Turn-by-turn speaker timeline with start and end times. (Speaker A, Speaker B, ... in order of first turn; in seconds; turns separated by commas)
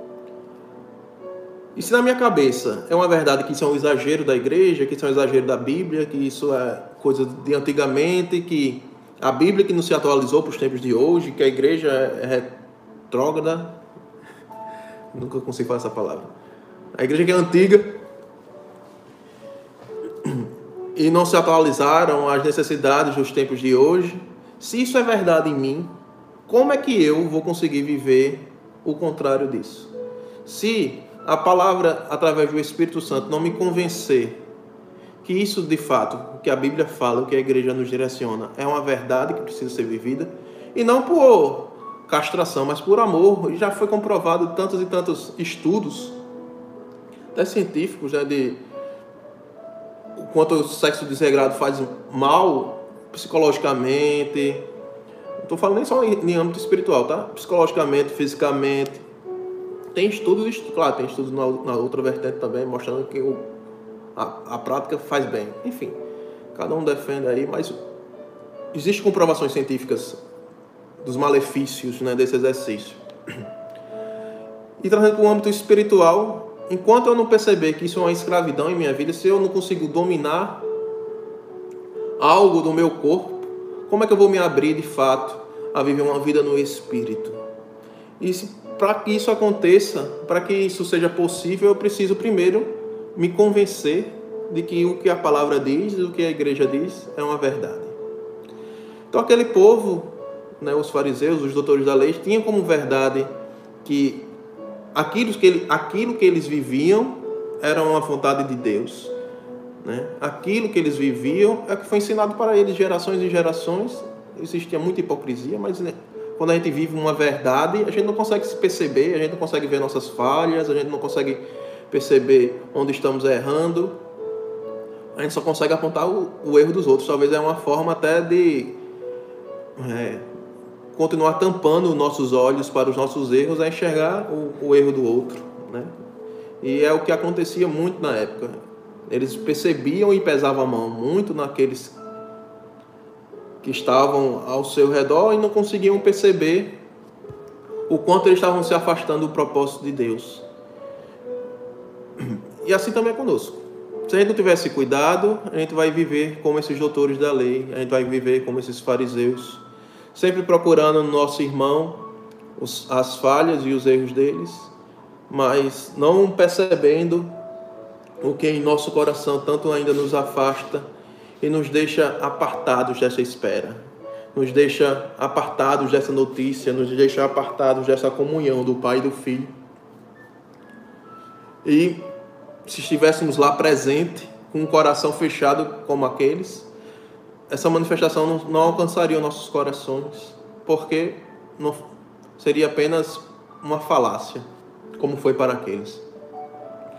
Speaker A: 1.7-12.6, Speaker A: 13.1-13.8, Speaker A: 15.1-16.3, Speaker A: 16.9-17.9, Speaker A: 20.2-25.9, Speaker A: 26.5-29.9, Speaker A: 30.4-34.4, Speaker A: 35.2-46.2, Speaker A: 47.3-48.6, Speaker A: 50.2-54.6, Speaker A: 55.4-59.0, Speaker A: 59.9-63.5, Speaker A: 64.1-66.0, Speaker A: 66.5-67.8, Speaker A: 68.7-70.2, Speaker A: 71.0-73.4, Speaker A: 74.8-80.6, Speaker A: 82.2-87.4, Speaker A: 88.2-98.0, Speaker A: 99.1-103.3, Speaker A: 103.8-104.3, Speaker A: 104.9-109.1, Speaker A: 109.8-124.0, Speaker A: 125.1-128.8, Speaker A: 129.8-130.3, Speaker A: 130.9-135.9, Speaker A: 136.6-142.0, Speaker A: 143.6-146.8, Speaker A: 147.9-150.4, Speaker A: 152.2-159.6, Speaker A: 160.1-164.7, Speaker A: 165.3-167.3, Speaker A: 168.2-170.9, Speaker A: 171.4-173.8, Speaker A: 174.3-179.5, Speaker A: 181.6-182.0, Speaker A: 182.7-186.7, Speaker A: 187.5-191.8, Speaker A: 192.4-194.4, Speaker A: 195.0-196.0